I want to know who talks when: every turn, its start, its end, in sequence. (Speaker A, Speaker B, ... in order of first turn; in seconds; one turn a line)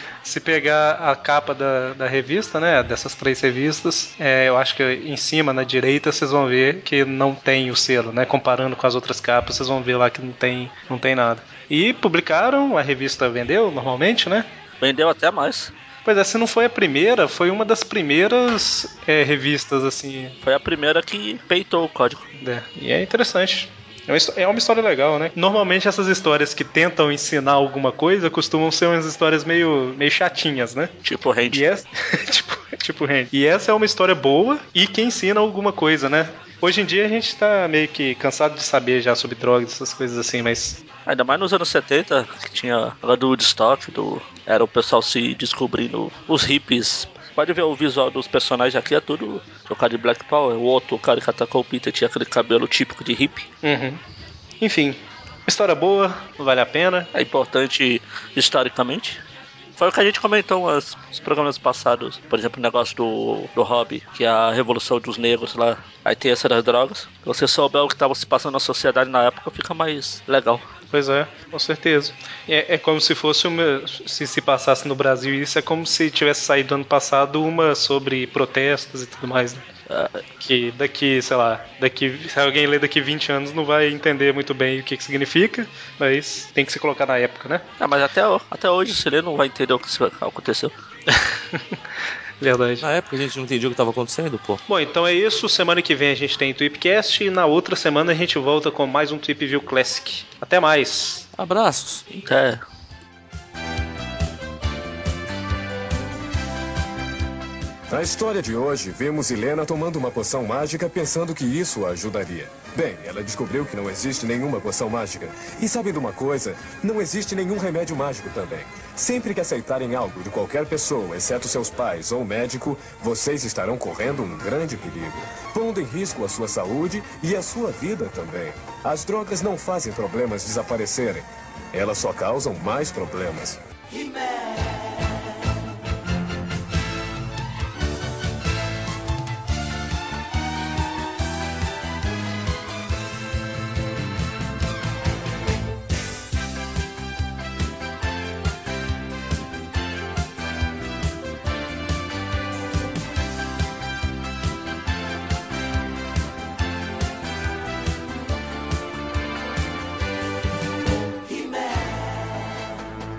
Speaker A: 0.2-14.5
Speaker B: 14.8-15.7
Speaker A: 16.1-20.4
Speaker B: 20.4-22.3
Speaker A: 22.4-30.9
Speaker B: 31.0-31.7
Speaker A: 31.5-40.8
Speaker B: 41.1-53.5
Speaker A: 53.6-54.0
Speaker A: 54.6-57.1
Speaker B: 57.1-59.2
Speaker B: 59.8-70.7
Speaker A: 70.9-79.7
Speaker B: 79.9-80.2
Speaker A: 80.4-87.6
Speaker B: 87.8-90.7
Speaker A: 92.4-92.8
Speaker C: 92.8-94.6
Speaker A: 94.7-101.3
Speaker C: 101.4-102.0
Speaker B: 102.1-102.6
Speaker D: 107.9-133.6